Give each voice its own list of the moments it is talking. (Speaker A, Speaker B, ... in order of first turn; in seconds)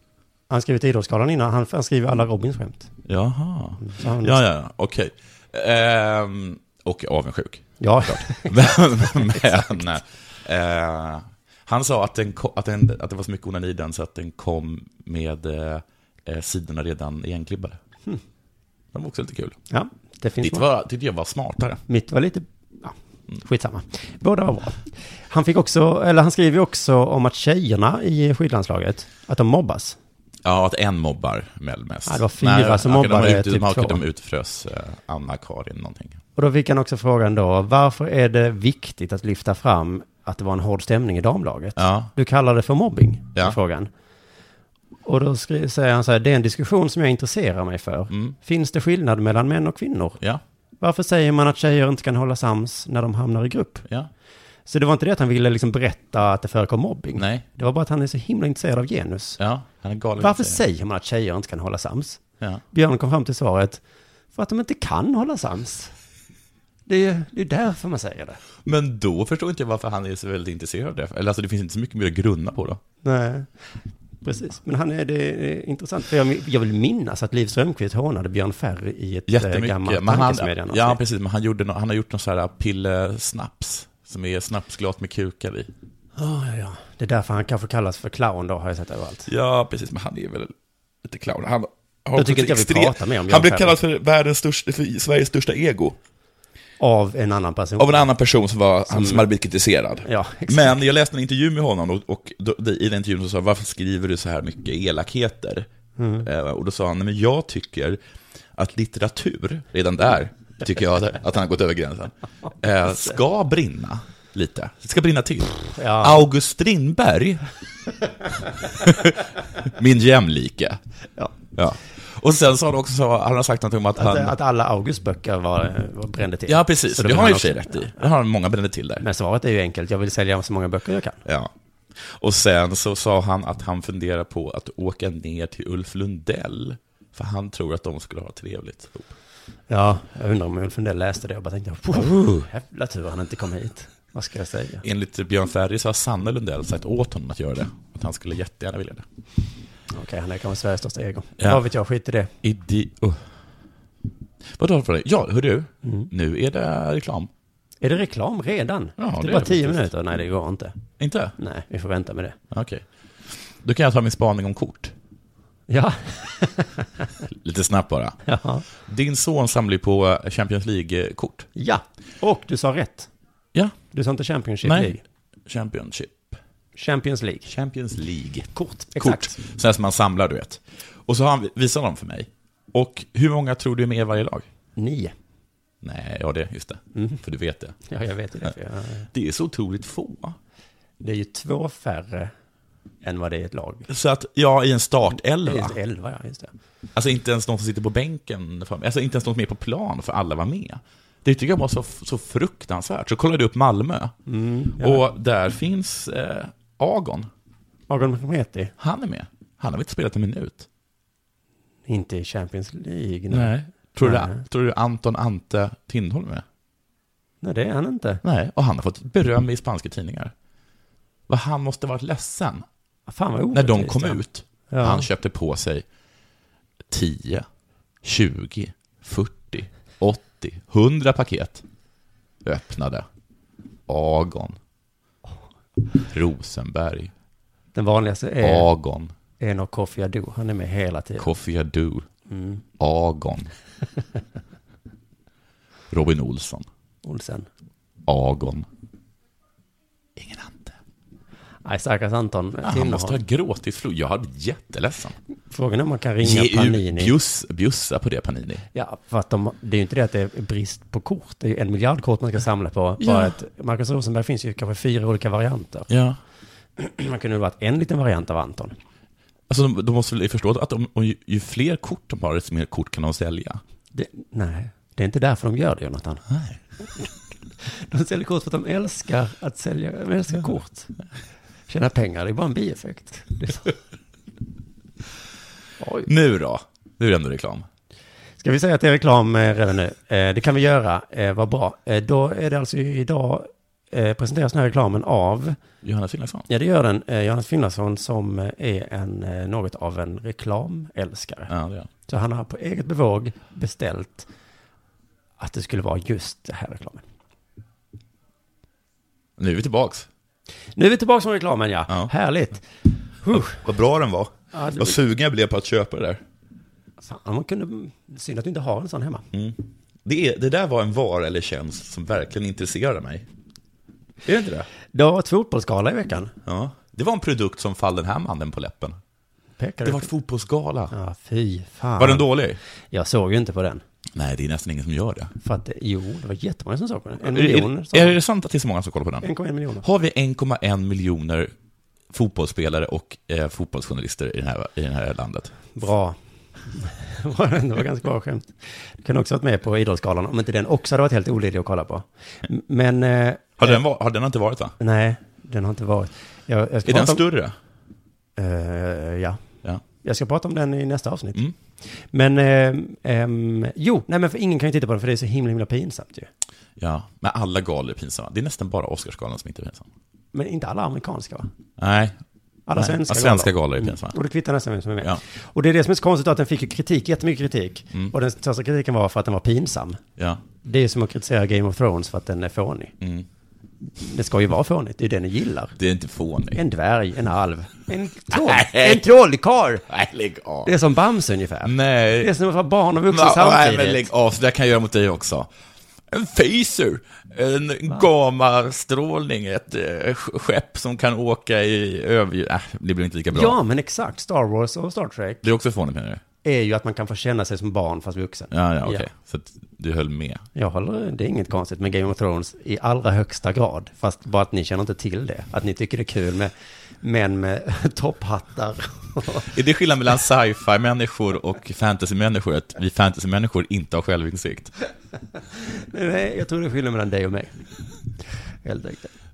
Speaker A: 0.5-2.9, 3.8-4.4, 7.8-9.8, 19.7-20.7, 21.9-30.0, 32.1-34.0, 36.4-43.9, 45.0-50.2, 50.8-53.9, 54.7-59.4, 60.2-63.8, 64.3-65.9, 66.9-68.4, 73.0-73.5, 74.2-81.0, 86.2-89.3, 92.2-93.8, 96.8-98.1, 98.9-99.3, 100.0-100.8, 106.0-106.3, 115.7-116.3, 124.0-128.0, 129.0-131.2, 139.7-144.8, 149.9-152.3, 155.8-156.1, 157.8-160.8, 161.4-162.4, 165.7-167.1, 168.2-168.7, 171.6-173.1, 173.9-175.0, 176.8-177.5, 178.5-179.4, 184.8-185.1, 186.9-187.2, 187.9-189.1, 191.0-192.3, 193.0-193.9, 195.4-196.5, 204.3-205.1, 207.9-208.7, 211.9-214.4, 217.4-218.2, 223.1-225.1, 237.8-238.7, 239.4-241.3, 242.3-242.6, 247.0-247.5, 251.7-253.2, 255.5-257.1, 258.7-265.9, 266.8-268.8, 273.9-276.3, 277.6-280.9, 281.7-283.7, 285.8-286.1, 288.4-295.6, 296.5-301.5, 302.1-304.3, 305.4-307.0, 310.8-312.7, 313.2-313.6, 314.5-315.0, 317.0-319.3, 324.9-326.3, 329.6-330.1, 330.9-332.3, 332.9-333.8, 335.4-338.2, 339.2-339.9, 345.8-346.2, 346.7-353.8, 354.8-357.2, 358.4-359.4, 360.0-366.3, 370.3-371.5, 372.7-380.0, 380.6-382.9, 384.0-385.7, 386.6-389.9, 390.6-394.1, 403.3-405.5, 406.4-409.1, 410.6-419.5, 425.6-427.6, 428.6-429.1
Speaker B: 3.1-17.8, 18.9-19.6, 20.4-21.8, 30.4-36.2, 41.8-42.1, 48.1-48.4, 57.2-57.5, 59.4-60.6, 68.7-72.8, 79.3-85.7, 89.3-96.0, 97.8-105.7, 106.2-108.0, 108.6-117.5, 118.6-120.8, 121.5-124.3, 126.5-129.1, 131.2-139.1, 144.8-149.1, 152.4-153.3, 154.5-157.3, 159.0-159.9, 161.0-161.3, 162.5-164.9, 167.3-168.2, 168.8-171.5, 174.6-175.0, 175.5-176.4, 177.5-184.5, 185.8-187.8, 189.1-190.4, 193.9-195.8, 196.9-204.2, 204.8-207.3, 208.8-210.7, 213.3-216.4, 218.2-220.3, 221.3-222.7, 223.5-225.8, 226.9-227.5, 228.0-231.6, 232.4-233.1, 233.9-234.6, 236.1-237.1, 238.4-239.1, 241.2-242.1, 242.8-243.5, 245.9-246.7, 248.1-248.7, 250.2-250.8, 252.6-255.2, 256.2-258.6, 263.0-263.3, 265.9-266.2, 269.5-273.6, 276.3-276.6, 286.1-287.7, 295.8-296.5, 301.5-301.9, 309.4-310.1, 313.3-316.2, 319.3-323.3, 324.2-324.7, 326.5-329.0, 329.8-330.9, 332.0-332.6, 334.1-335.3, 337.2-339.3, 339.8-341.5, 342.1-345.5, 353.6-354.8, 356.9-357.6, 366.8-369.9, 371.8-372.2, 372.8-374.2, 380.2-380.4, 383.0-383.3, 385.8-386.6, 388.3-389.1, 389.9-390.7, 391.6-392.3, 393.1-395.5, 396.1-403.6, 405.4-406.2, 408.5-410.5, 419.4-424.7